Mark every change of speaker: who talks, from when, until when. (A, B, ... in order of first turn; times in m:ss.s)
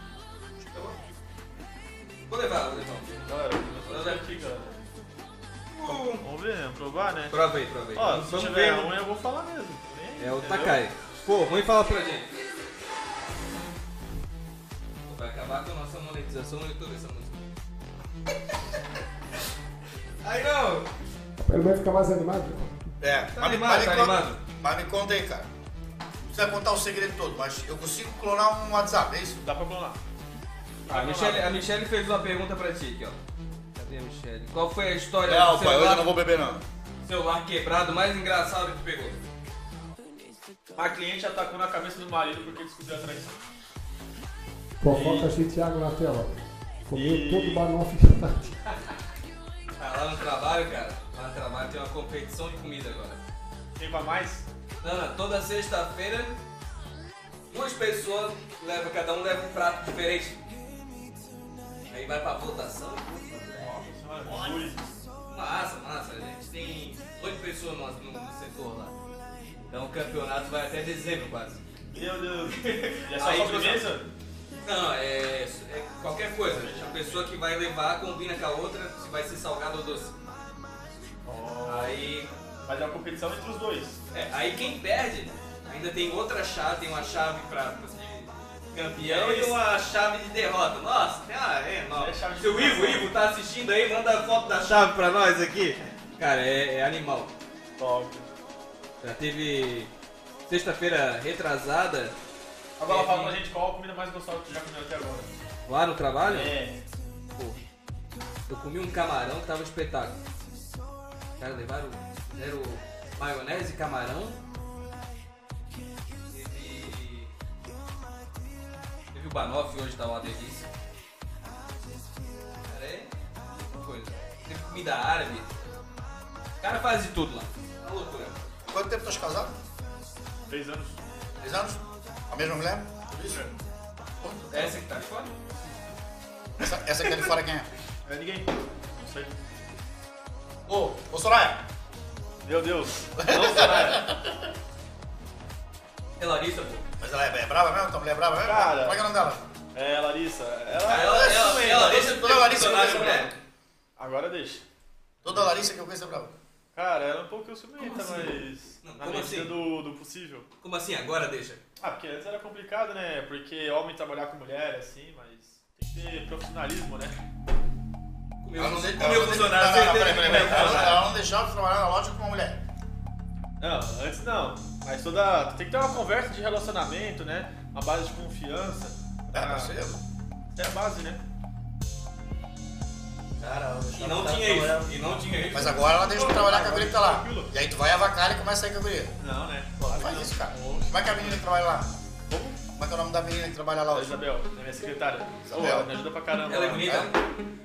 0:00.7-0:00.9 A
0:02.3-0:04.2 B
0:03.3-0:04.8 C
0:05.7-0:06.2 B
0:06.2-0:07.4 C
0:07.3-0:08.9 B
0:07.9-0:10.8 C
0:10.2-0:12.3 B
0:15.0-0:17.5 B
0:20.2-0:20.9 B
0:21.4-0:22.8 D
0:23.0-0:25.5 A
0:23.4-0:24.4 B
0:26.2-0:29.4 A
0:29.4-0:30.0 C
0:30.9-0:31.5 C
0:30.9-0:33.2 B
0:33.8-0:36.1 B
0:35.2-0:36.6 A
0:37.0-0:39.2 B
0:40.8-0:43.4 C
0:44.8-0:46.4 D
0:44.9-0:45.3 C
0:46.9-0:48.6 D
0:46.9-0:47.7 C
0:49.8-0:53.2 B
0:53.8-0:54.5 C
0:54.8-0:56.4 B
0:57.5-1:00.4 B
1:01.9-1:03.8 B
1:03.6-1:04.8 C
1:04.3-1:04.6 B
1:05.3-1:09.0 B
1:09.7-1:11.6 B
1:11.9-1:14.1 C
1:12.5-1:13.9 B
1:14.6-1:20.2 B
1:16.4-1:17.3 C
1:21.2-1:22.0 C
1:21.6-1:22.3 B
1:22.6-1:24.0 C
1:24.1-1:37.3 B
1:29.0-1:29.6 C
1:32.0-1:33.1 C
1:37.8-1:38.3 C
1:39.0-1:39.9 B
1:40.5-1:42.2 B
1:42.8-1:45.3 C
1:42.8-1:43.4 B
1:45.7-1:46.5 B
1:46.2-1:46.8 C
1:47.3-1:47.6 B
1:48.5-1:50.2 B
1:51.4-1:54.4 B
1:56.3-1:57.3 B
1:59.1-2:00.7 B
2:02.6-2:03.1 B
2:03.7-2:05.5 B
2:06.6-2:08.4 B
2:08.7-2:09.6 A
2:10.5-2:11.0 C
2:11.4-2:13.5 A
2:13.2-2:13.5 C
2:14.2-2:14.8 A
2:14.5-2:15.3 B
2:16.6-2:17.7 A
2:18.0-2:19.4 C
2:20.7-2:21.6 A
2:22.4-2:24.1 C
2:23.2-2:24.5 A
2:26.2-2:26.9 B
2:27.0-2:29.5 A
2:28.4-2:29.0 C
2:29.7-2:32.1 C
2:30.8-2:33.4 B
2:30.9-2:33.4 A
2:34.0-2:34.6 C
2:35.2-2:35.6 C
2:35.2-2:36.3 A
2:36.7-2:40.5 C
2:37.8-2:38.3 B
2:38.8-2:39.6 B
2:40.6-2:41.6 B
2:41.8-2:47.2 C
2:48.4-2:51.0 B
2:48.6-2:52.6 A
2:50.2-2:51.0 C
2:53.6-2:59.7 C
2:59.3-3:00.0 A
3:00.6-3:01.2 C
3:03.4-3:09.2 A
3:04.0-3:05.8 B
3:05.6-3:07.5 C
3:09.2-3:11.5 C
3:09.8-3:12.0 A
3:12.3-3:12.6 C
3:12.8-3:14.2 A
3:13.9-3:17.1 C
3:15.4-3:15.9 A
3:16.5-3:17.2 B
3:16.8-3:17.1 A